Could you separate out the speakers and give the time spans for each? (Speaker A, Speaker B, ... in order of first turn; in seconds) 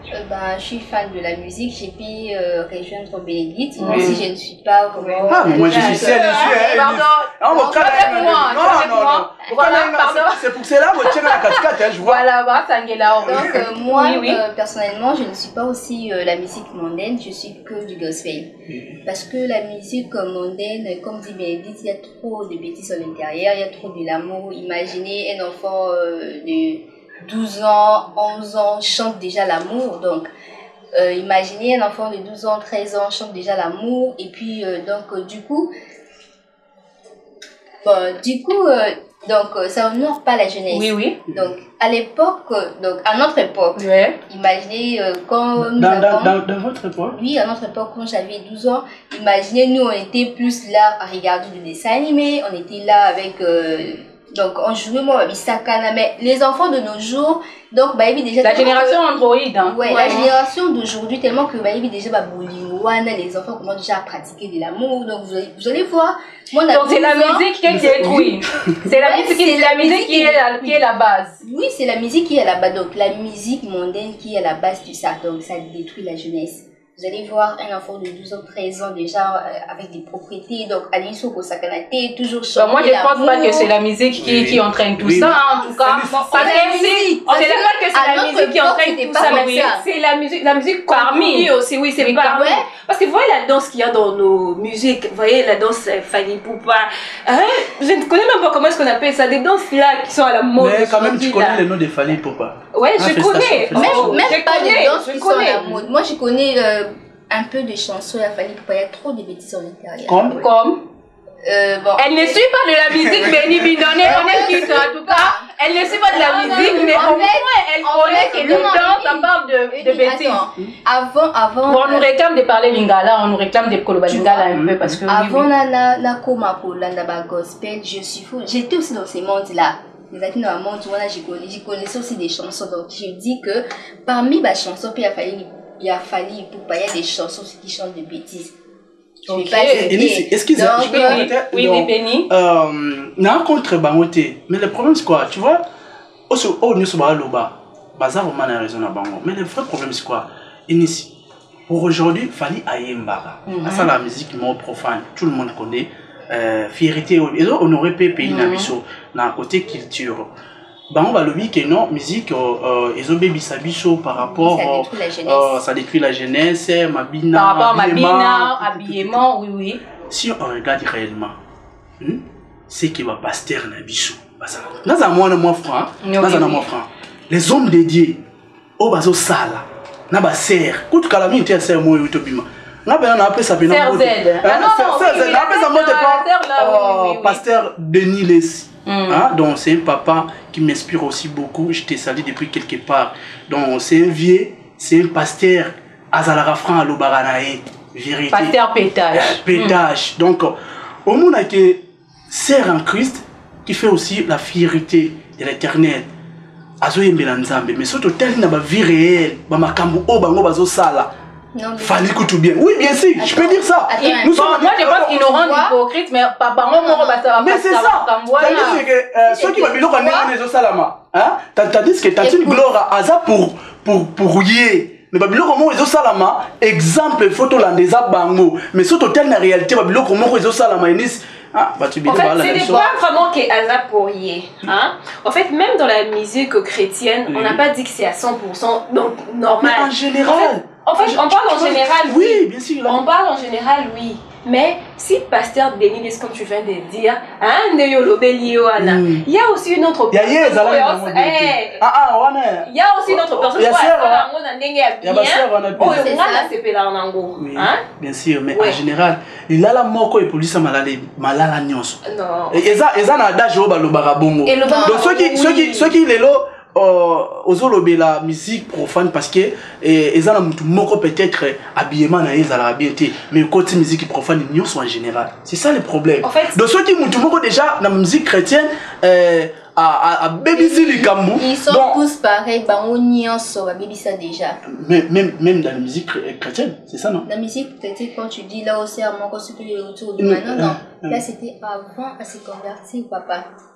Speaker A: 0.1-6.5, 7.5-8.8, 13.2-30.3, 30.9-35.7, 37.8-46.4, 47.1-59.0, 59.7-67.8, 68.8-70.8, 71.4-83.7, 85.2-85.7, 86.3-89.8, 92.3-92.7, 103.7-110.5, 111.4-112.4, 113.1-122.1, 124.1-124.5, 125.1-138.5, 139.3-141.3, 164.3-165.6, 211.6-212.1, 213.2-215.7, 216.7-217.3, 218.4-220.3, 222.2-222.6, 232.6-233.0, 255.9-256.5, 264.6-265.1, 280.6-284.6, 287.3-293.5
Speaker B: 3.8-4.2, 5.0-10.4, 11.0-13.7, 40.7-41.2, 43.8-44.2, 58.4-60.3, 66.7-71.4, 82.6-87.2, 90.9-92.6, 110.3-110.8, 112.0-120.5, 121.7-125.5, 139.3-140.0, 140.8-142.3, 153.5-153.9, 158.2-158.7, 167.3-169.8, 176.0-176.7, 183.7-187.4, 188.9-189.3, 198.3-199.8, 214.0-218.8, 264.5-265.9
Speaker C: 3.9-4.2, 5.3-12.3, 13.3-13.7, 18.7-19.0, 45.6-47.2, 67.7-68.7, 84.2-86.3, 100.6-104.4, 110.1-110.4, 112.9-114.6, 124.5-125.0, 139.7-145.6, 146.3-151.1, 151.7-160.3, 160.9-169.3, 170.1-171.4, 172.0-178.2, 178.8-198.6, 199.1-206.1, 206.8-211.1, 211.8-215.3, 217.4-232.9, 237.3-237.6, 239.6-243.0, 248.8-249.2, 250.1-254.3, 255.0-256.2, 257.4-282.0, 284.7-287.3, 290.2-291.2
Speaker D: 5.6-6.6, 13.9-14.4, 59.9-60.3, 86.1-101.6, 102.7-105.8, 232.1-251.8, 252.7-257.8, 258.5-258.8, 262.1-262.6, 276.2-276.6